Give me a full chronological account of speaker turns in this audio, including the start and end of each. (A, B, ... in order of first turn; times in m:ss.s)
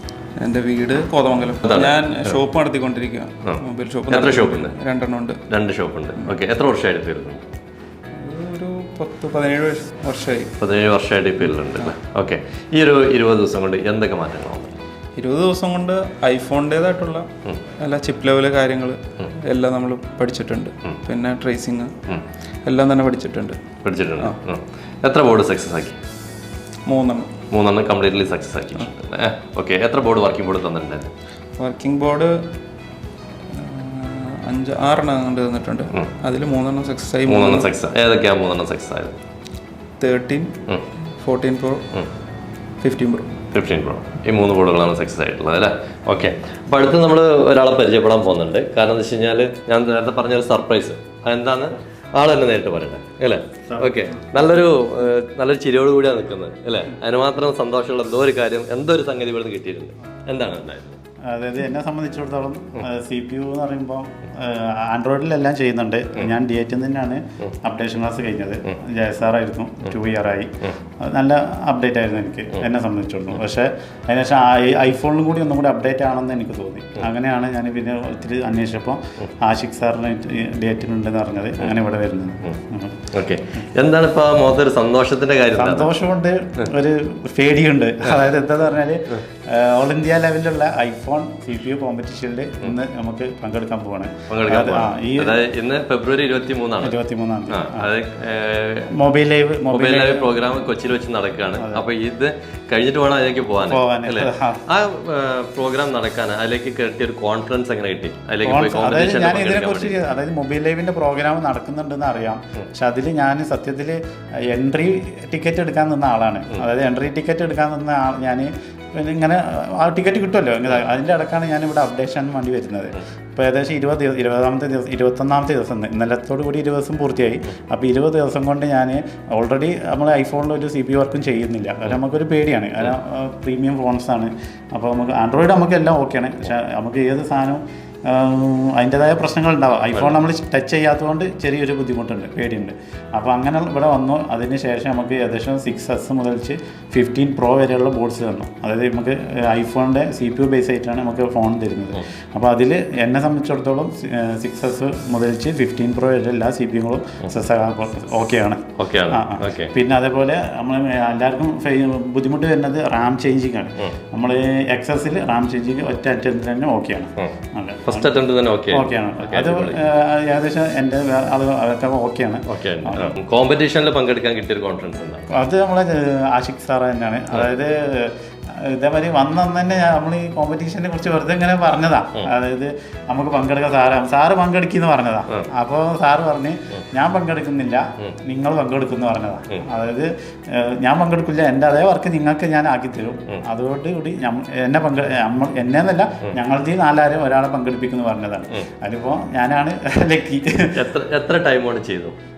0:00.4-0:05.4 A
0:01.6-0:01.9 B
0:03.4-0:04.7 B
0:05.5-0:07.4 B
0:08.2-0:10.5 A
0:10.6-0:14.7 B
0:15.2-0:17.3 A
0:17.8-0:21.9 A
0:22.6-0:23.6 A
0:23.8-0:26.0 B
0:26.9-0:27.3 A
0:27.5-0:31.1 B
0:31.6-0:32.3 A
0:33.5-0:37.7 A
0:37.3-0:39.1 B
0:40.0-0:40.5 A
0:41.2-0:41.8 A
0:42.8-0:43.3 A
0:43.5-1:01.0 B
0:53.7-0:54.0 C
1:01.2-1:23.1 C
1:23.1-1:25.9 B
1:25.6-1:35.4 C
1:34.3-1:37.0 B
1:36.8-1:37.9 C
1:37.5-1:38.9 B
1:38.9-1:40.3 C
1:39.7-1:50.0 B
1:41.6-1:41.8 C
1:43.6-1:44.6 C
1:48.4-2:48.1 C
2:38.8-2:39.7 B
2:47.9-2:49.8 B
2:48.7-2:53.1 C
2:52.5-2:55.3 B
2:55.3-3:20.7 C
3:20.8-3:22.2 B